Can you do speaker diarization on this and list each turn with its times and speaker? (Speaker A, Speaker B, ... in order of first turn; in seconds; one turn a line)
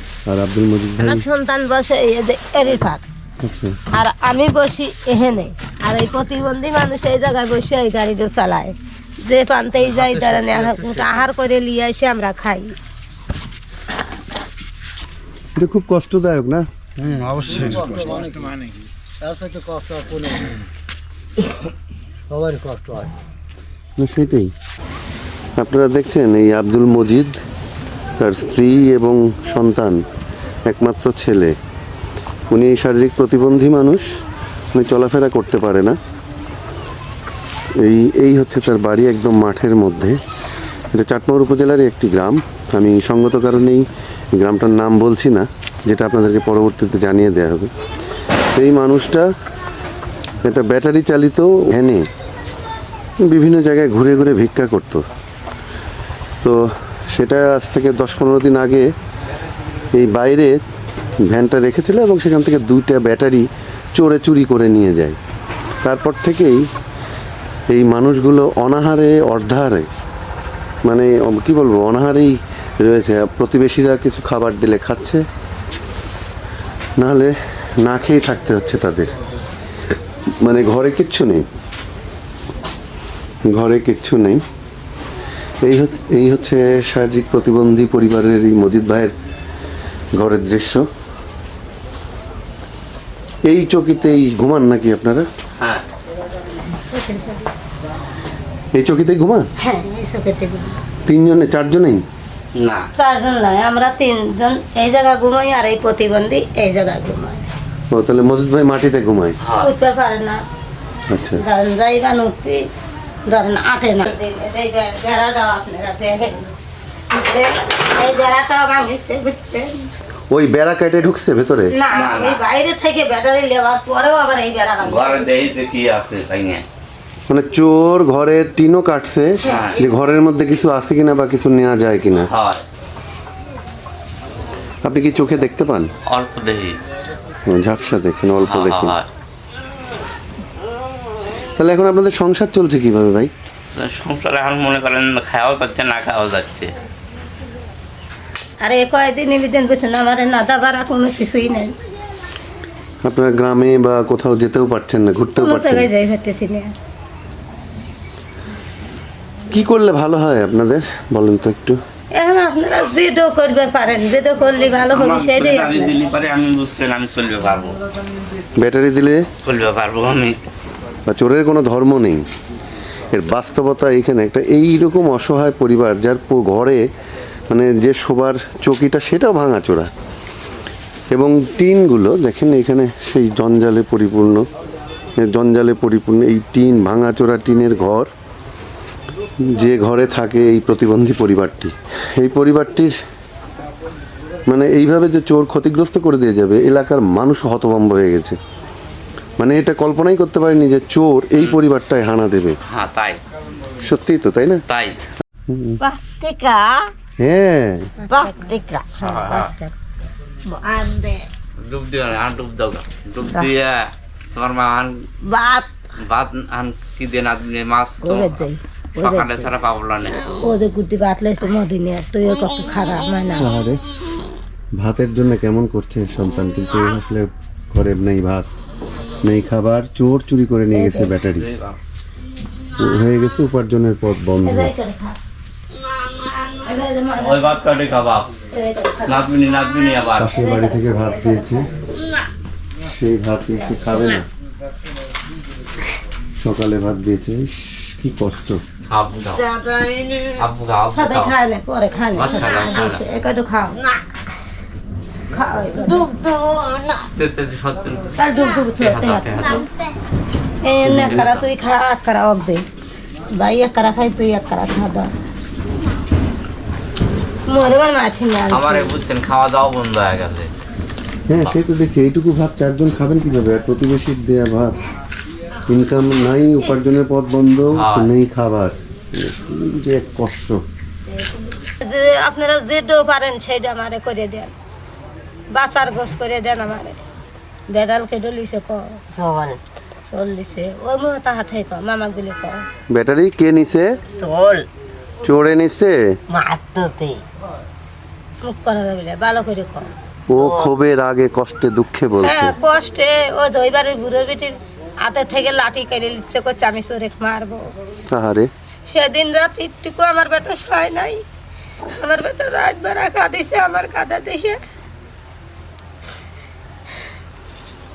Speaker A: 0.3-1.2
Speaker B: 1.0-3.0
Speaker A: 3.4-3.8
Speaker B: 3.9-12.8
Speaker A: 15.6-16.6
Speaker C: 17.0-18.7
Speaker C: 19.2-20.5
Speaker C: 22.3-23.1
Speaker A: 24.0-24.5
Speaker A: 25.6-27.4
Speaker A: 28.2-30.0
Speaker A: 30.7-31.5
Speaker A: 32.5-34.0
Speaker A: 34.7-36.0
Speaker A: 37.8-40.2
Speaker A: 40.9-47.7
Speaker A: 48.5-49.3
Speaker A: 50.4-52.0
Speaker A: 53.2-55.0
Speaker A: 56.4-58.9
Speaker A: 59.9-60.6
Speaker A: 61.3-65.2
Speaker A: 65.8-66.7
Speaker A: 67.7-69.9
Speaker A: 70.8-75.2
Speaker A: 77.0-79.1
Speaker A: 80.4-81.5
Speaker A: 83.5-84.4
Speaker A: 85.6-89.1
Speaker A: 90.2-90.8
Speaker A: 93.5-95.3
Speaker D: 95.6-95.8
Speaker B: 96.8-97.5
Speaker A: 98.7-99.5
Speaker B: 99.6-100.8
Speaker A: 101.1-102.0
Speaker D: 102.5-102.9
Speaker B: 103.0-107.4
Speaker A: 107.9-109.4
Speaker D: 109.4-109.7
Speaker B: 109.6-110.4
Speaker A: 111.1-111.4
Speaker B: 111.4-112.6
Speaker B: 113.3-116.5
Speaker B: 117.1-119.9
Speaker A: 120.3-121.7
Speaker B: 121.7-125.3
Speaker D: 121.9-122.4
Speaker D: 124.8-126.7
Speaker A: 127.3-132.3
Speaker B: 129.4-129.7
Speaker D: 129.4-129.8
Speaker D: 132.3-132.6
Speaker A: 134.8-135.9
Speaker D: 136.1-136.8
Speaker A: 137.5-139.0
Speaker D: 138.4-139.1
Speaker A: 141.6-143.3
Speaker D: 143.7-146.7
Speaker B: 148.6-151.7
Speaker A: 153.0-155.9
Speaker B: 155.4-156.7
Speaker A: 159.5-161.8
Speaker B: 162.1-166.0
Speaker D: 164.9-167.8
Speaker A: 168.6-169.2
Speaker D: 169.4-170.4
Speaker A: 171.1-172.2
Speaker A: 173.1-176.8
Speaker A: 177.5-179.9
Speaker A: 181.1-184.4
Speaker A: 185.2-188.1
Speaker A: 189.4-192.9
Speaker A: 194.5-198.4
Speaker A: 199.4-202.6
Speaker D: 202.7-203.2
Speaker A: 203.8-204.6
Speaker D: 204.7-205.0
Speaker A: 205.5-205.8
Speaker A: 207.2-207.9
Speaker B: 208.0-209.7
Speaker D: 209.0-209.5
Speaker D: 211.6-215.1
Speaker D: 216.0-218.4
Speaker B: 218.0-219.5
Speaker D: 218.9-220.4
Speaker B: 220.4-223.5
Speaker A: 223.3-223.8
Speaker A: 224.8-228.5
Speaker A: 229.2-231.5
Speaker B: 230.7-231.1
Speaker D: 231.4-231.8
Speaker A: 232.8-234.7
Speaker B: 234.4-235.2
Speaker B: 236.4-237.6
Speaker D: 237.2-238.3
Speaker B: 238.5-239.3
Speaker D: 239.1-240.3
Speaker A: 240.2-241.7
Speaker B: 240.3-241.4
Speaker A: 242.9-244.3
Speaker B: 243.8-244.0
Speaker A: 246.4-248.6
Speaker D: 248.9-249.6
Speaker D: 250.4-251.3
Speaker B: 250.9-253.8
Speaker D: 252.2-253.0
Speaker B: 255.3-256.1
Speaker D: 257.2-259.7
Speaker B: 258.2-259.7
Speaker B: 260.6-262.6
Speaker D: 260.8-261.4
Speaker B: 263.4-265.1
Speaker B: 267.5-268.9
Speaker D: 268.5-270.5
Speaker A: 271.3-274.8
Speaker A: 275.7-280.6
Speaker D: 277.7-278.1
Speaker B: 281.6-284.5
Speaker B: 285.6-287.0
Speaker B: 287.7-289.0
Speaker B: 290.1-292.6
Speaker A: 292.9-293.9
Speaker A: 295.2-296.0
Speaker C: 296.4-297.2
Speaker B: 298.4-299.9
Speaker A: 300.3-302.6
Speaker B: 302.2-307.7
Speaker A: 308.1-308.5
Speaker B: 308.9-311.2
Speaker B: 311.9-314.6